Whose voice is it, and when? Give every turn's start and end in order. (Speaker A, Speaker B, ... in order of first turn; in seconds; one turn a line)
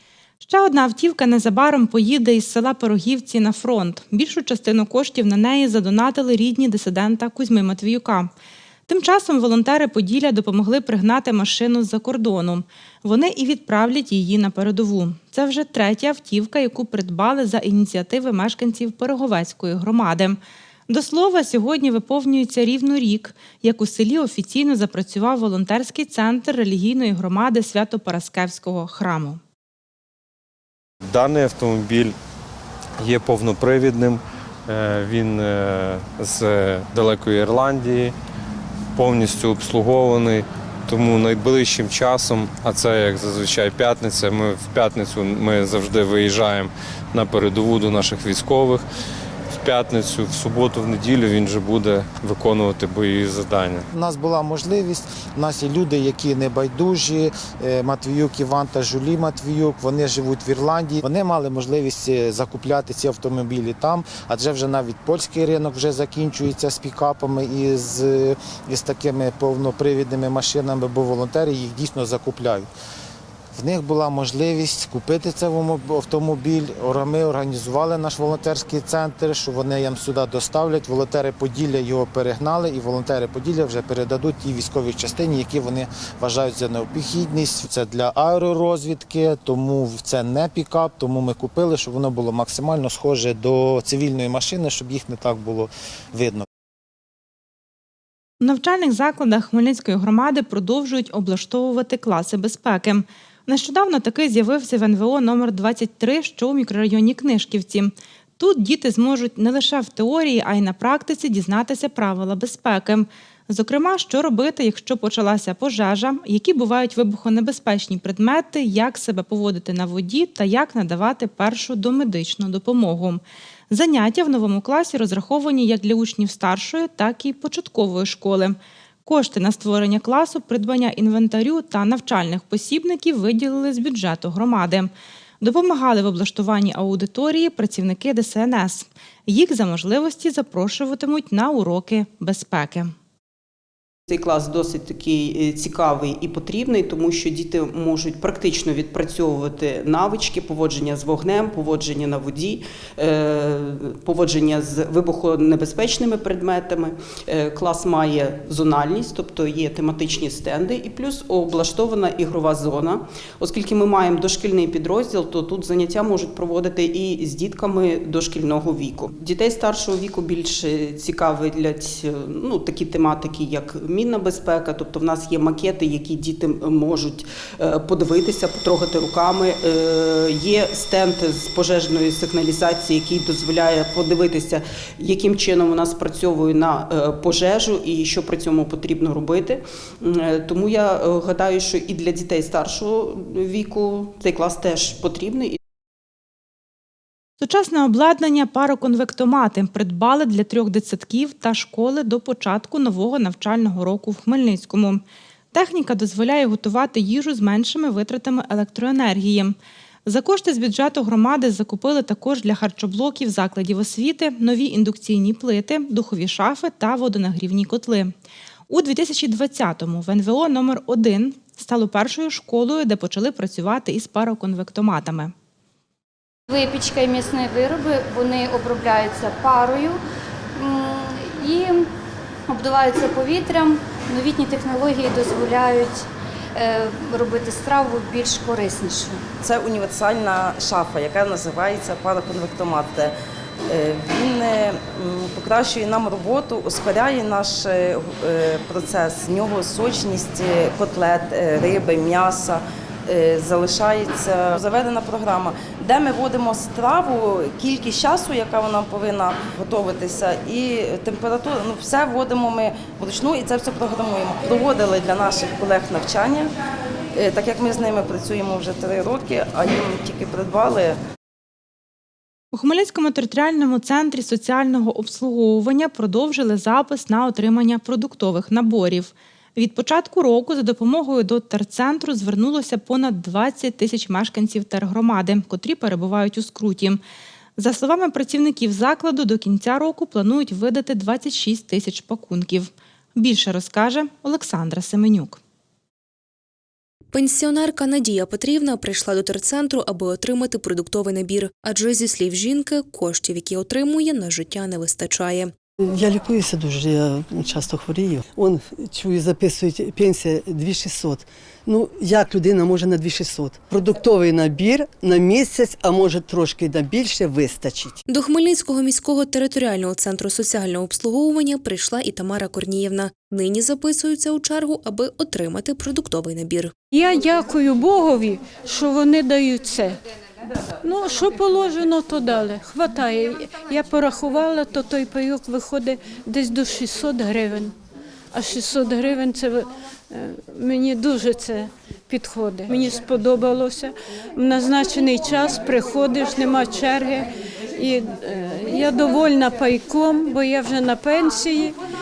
Speaker A: 0.4-8.3
Speaker A: 8.9-29.4
Speaker B: 31.1-32.1
Speaker B: 33.0-38.1
Speaker B: 38.9-48.8
Speaker B: 49.5-53.9
Speaker C: 53.9-72.7
Speaker C: 73.5-96.4
Speaker A: 98.4-134.9
Speaker A: 135.4-142.9
Speaker D: 144.1-195.6
Speaker A: 197.4-205.0
Speaker A: 205.5-218.1
Speaker A: 218.7-225.3
Speaker E: 226.5-230.0
Speaker E: 230.6-231.9
Speaker E: 232.5-239.2
Speaker F: 239.4-243.1
Speaker F: 243.7-266.5
Speaker F: 267.1-271.0
Speaker A: 272.5-287.0
Speaker A: 287.6-295.4
Speaker G: 297.1-305.5
Speaker H: 305.9-318.0
Speaker G: 318.1-326.7
Speaker I: 326.9-329.9
Speaker I: 330.8-337.7
Speaker I: 338.3-351.7